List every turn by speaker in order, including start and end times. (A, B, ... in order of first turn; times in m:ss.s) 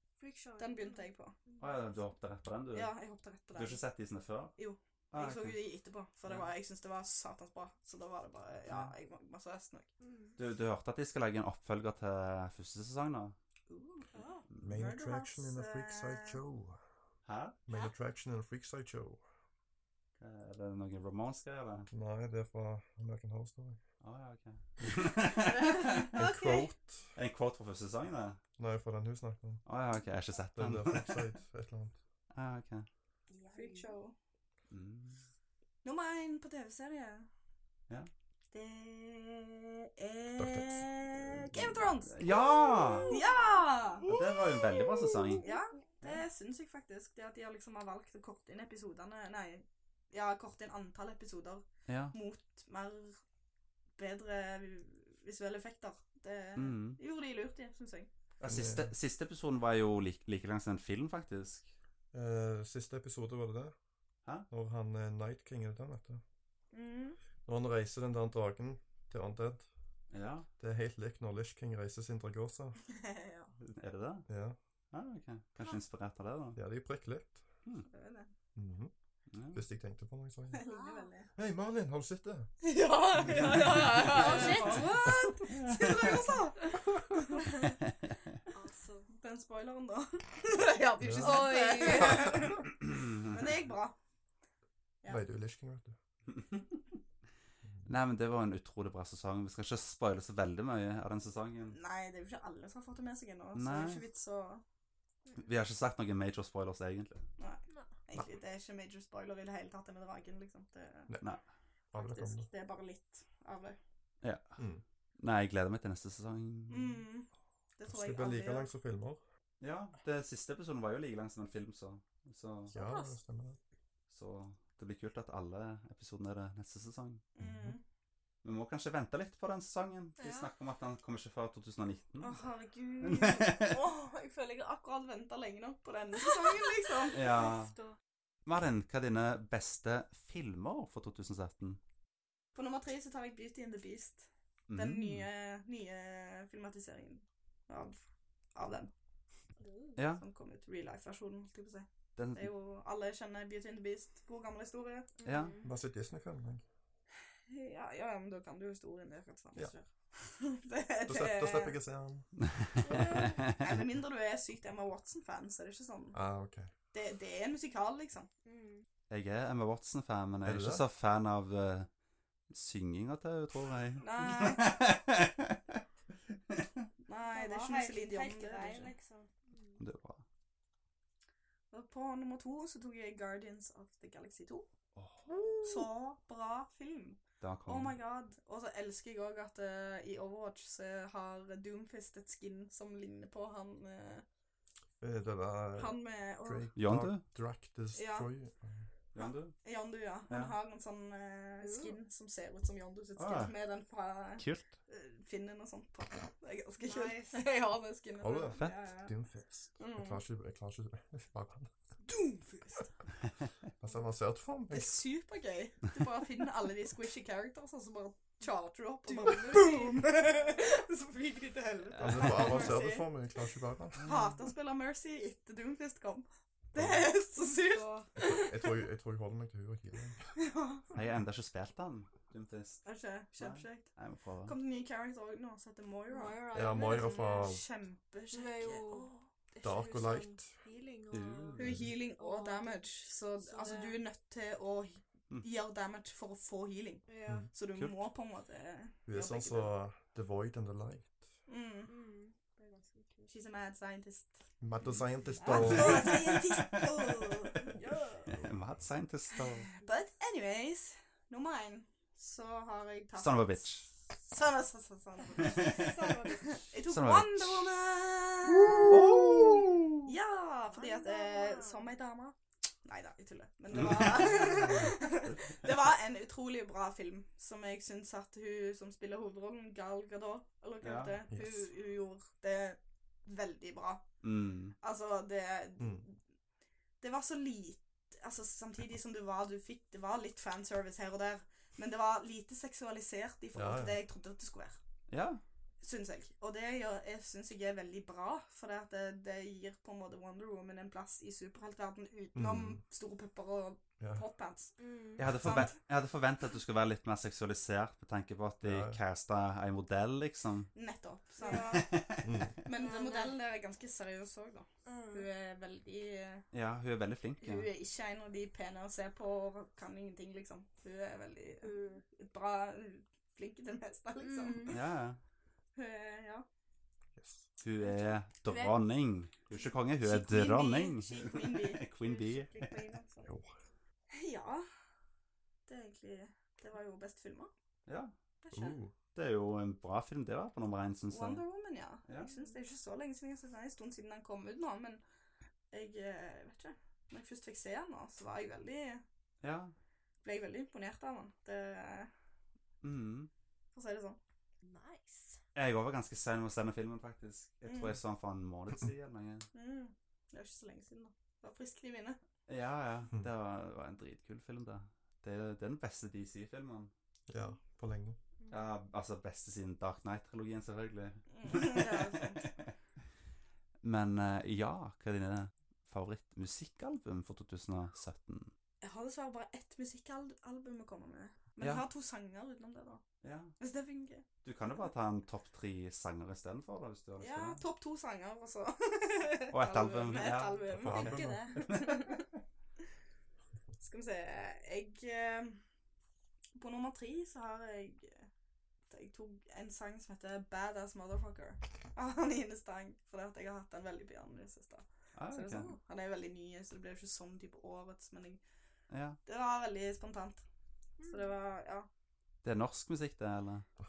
0:00.2-0:01.6 A
0:00.6-0:01.5 B
0:01.6-0:02.9 C
0:02.7-0:03.8 B
0:03.5-0:04.6 C
0:04.6-0:09.9 B
0:05.1-0:05.6 C
0:08.7-0:08.9 C
0:10.0-0:10.4 A
0:10.4-0:13.4 C
0:13.7-0:14.1 B
0:14.1-0:14.4 A
0:14.6-0:16.8 D
0:14.7-0:16.4 B
0:17.3-0:17.6 C
0:17.7-0:19.2 D
0:20.2-0:21.9 C
0:21.9-0:23.8 D
0:24.0-0:26.2 C
0:26.0-0:26.7 B
0:26.1-0:27.1 D
0:27.2-0:28.4 C
0:28.6-0:29.6 D
0:29.7-0:31.2 C
0:30.6-0:32.0 D
0:32.3-0:32.9 C
0:33.3-0:33.9 A
0:33.5-0:34.1 B
0:34.7-0:35.2 C
0:35.8-0:37.3 B
0:38.5-0:44.2 B
0:40.4-0:41.9 D
0:42.1-0:43.1 C
0:42.8-0:43.6 A
0:44.1-0:45.5 C
0:45.4-0:53.2 B
0:51.9-0:52.2 C
0:54.0-0:58.1 B
0:56.6-0:57.0 C
0:58.4-0:58.9 D
0:58.4-1:01.7 C
1:02.1-1:03.7 D
1:04.5-1:06.2 D
1:06.7-1:07.2 B
1:07.4-1:09.7 D
1:10.1-1:10.5 C
1:10.6-1:12.8 D
1:12.9-1:13.5 B
1:13.6-1:14.3 C
1:14.3-1:14.6 D
1:14.9-1:16.6 C
1:16.6-1:17.4 D
1:17.9-1:18.3 B
1:18.6-1:18.9 D
1:19.3-1:19.6 C
1:19.5-1:20.6 D
1:20.5-1:21.3 B
1:20.6-1:21.1 A
1:21.4-1:22.5 D
1:22.6-1:27.5 B
1:23.3-1:24.0 D
1:24.1-1:25.4 A
1:25.6-1:26.2 C
1:27.4-1:27.8 A
1:28.5-1:29.1 A
1:29.2-1:34.0 B
1:31.0-1:31.6 D
1:31.2-1:32.4 A
1:32.8-1:33.2 C
1:35.1-1:36.0 D
1:36.3-1:36.6 C
1:37.9-1:41.8 C
1:41.7-1:44.6 B
1:43.6-1:44.0 C
1:45.4-1:47.3 C
1:47.4-1:51.1 B
1:51.9-1:52.5 D
1:51.9-1:53.8 B
1:54.6-1:54.8 D
1:55.2-1:57.0 C
1:56.7-1:58.7 B
1:57.8-1:59.2 D
1:59.6-2:02.8 C
2:02.7-2:03.6 D
2:02.8-2:03.2 A
2:04.1-2:07.2 C
2:07.3-2:07.8 B
2:07.4-2:07.8 D
2:08.4-2:12.4 C
2:10.2-2:10.5 A
2:12.2-2:17.5 B
2:13.0-2:13.8 C
2:16.3-2:18.0 A
2:17.1-2:17.7 C
2:18.5-2:21.8 C
2:22.5-2:28.0 B
2:24.7-2:25.3 C
2:28.6-2:28.9 B
2:29.6-2:30.0 A
2:30.0-2:30.2 C
2:30.1-2:35.2 B
2:32.2-2:32.5 C
2:35.2-2:35.7 A
2:35.2-2:35.5 C
2:35.6-2:36.6 D
2:37.5-2:41.8 B
2:41.1-2:42.3 D
2:42.4-2:43.8 C
2:42.8-2:43.4 A
2:43.0-2:46.2 B
2:46.1-2:46.7 D
2:46.9-2:48.3 B
2:48.4-2:48.8 A
2:49.1-2:51.9 C
2:50.4-2:50.8 D
2:52.5-2:55.8 C
2:54.0-2:54.7 B
2:57.1-2:58.9 B
2:57.3-2:59.8 A
2:59.8-3:00.2 C
3:01.7-3:04.7 B
3:05.6-3:14.2 B
3:07.4-3:08.0 C
3:15.0-3:18.9 D
3:15.8-3:16.7 B
3:16.8-3:17.2 C
3:17.9-3:18.3 B
3:19.1-3:19.6 C
3:19.2-3:29.1 B
3:20.3-3:20.6 C
3:21.6-3:22.0 A
3:23.2-3:23.5 C
3:24.4-3:24.7 C
3:26.8-3:27.4 A
3:28.2-3:31.7 D
3:29.8-3:30.2 B
3:32.0-3:32.9 B
3:33.8-3:35.0 D
3:34.7-3:43.1 B
3:39.0-3:40.7 A
3:41.9-3:42.8 C
3:42.0-3:44.0 D
3:44.0-3:48.8 B
3:44.0-3:44.4 C
3:46.8-3:47.0 D
3:47.4-3:48.1 A
3:48.2-3:50.3 D
3:50.4-3:50.9 B
3:50.9-3:52.8 C
3:52.8-3:59.1 B
3:53.4-3:54.6 C
3:56.1-3:57.5 A
3:56.5-3:57.6 D
3:58.3-4:04.0 A
3:59.6-4:00.6 D
4:01.1-4:01.8 C
4:01.6-4:09.8 B
4:07.1-4:07.5 A
4:07.7-4:08.0 C
4:09.1-4:11.3 D
4:11.5-4:11.9 B
4:11.9-4:13.4 A
4:13.3-4:14.5 B
4:14.6-4:16.1 D
4:14.8-4:17.7 C
4:15.4-4:16.8 B
4:15.4-4:18.3 A
4:17.5-4:18.4 B
4:18.4-4:19.7 C
4:19.4-4:26.0 B
4:23.2-4:23.9 C
4:25.4-4:26.7 A
4:25.4-4:25.9 C
4:26.5-4:29.2 B
4:26.9-4:27.7 C
4:28.8-4:30.0 C
4:30.0-4:44.1 B
4:30.7-4:31.9 A
4:33.7-4:34.8 C
4:34.6-4:34.9 D
4:40.8-4:41.2 C
4:41.3-4:41.7 D
4:44.2-4:44.8 C
4:44.8-4:46.2 B
4:45.8-4:46.0 D
4:47.0-4:54.8 B
4:53.5-4:54.0 D
4:55.1-4:55.4 C
4:55.8-5:04.7 B
5:02.4-5:02.8 D
5:04.8-5:05.2 A
5:05.2-5:10.7 C
5:05.4-5:05.7 B
5:08.6-5:09.0 D
5:10.8-5:11.8 B
5:11.4-5:11.9 A
5:11.7-5:12.5 C
5:12.2-5:12.6 D
5:12.6-5:16.4 B
5:12.7-5:13.4 A
5:14.8-5:15.3 A
5:16.5-5:17.7 C
5:17.4-5:24.8 B
5:21.6-5:22.0 A
5:24.2-5:24.8 A
5:24.7-5:25.2 C
5:25.8-5:26.5 B
5:27.2-5:27.5 D
5:27.6-5:32.8 C
5:28.4-5:28.8 A
5:30.0-5:33.3 B
5:34.1-5:34.7 B
5:35.7-5:37.5 B
5:37.9-5:38.1 C
5:38.4-5:38.8 B
5:38.5-5:38.9 D
5:39.2-5:41.4 C
5:41.1-5:45.0 B
5:42.1-5:42.4 C
5:45.7-5:49.0 B
5:49.4-5:49.7 C
5:50.2-5:52.1 B
5:52.8-5:53.3 C
5:53.7-5:54.2 B
5:54.6-5:55.4 A
5:55.6-5:59.5 C
5:57.7-5:58.0 B
5:59.5-6:02.2 B
6:02.5-6:06.9 C
6:07.3-6:08.2 D
6:08.5-6:12.7 C
6:11.3-6:12.4 B
6:13.8-6:18.5 C
6:18.8-6:23.0 B
6:23.2-6:23.6 C
6:23.6-6:24.3 B
6:24.4-6:27.6 C
6:27.2-6:32.2 B
6:29.5-6:32.3 C
6:30.8-6:31.6 D
6:33.8-6:35.6 B
6:36.6-6:38.3 B
6:38.9-6:48.4 B
6:45.2-6:45.7 C
6:45.4-6:45.8 A
6:48.9-6:49.2 C
6:49.3-6:50.4 B
6:51.0-6:51.4 A
6:51.1-6:51.9 B
6:52.4-6:53.7 C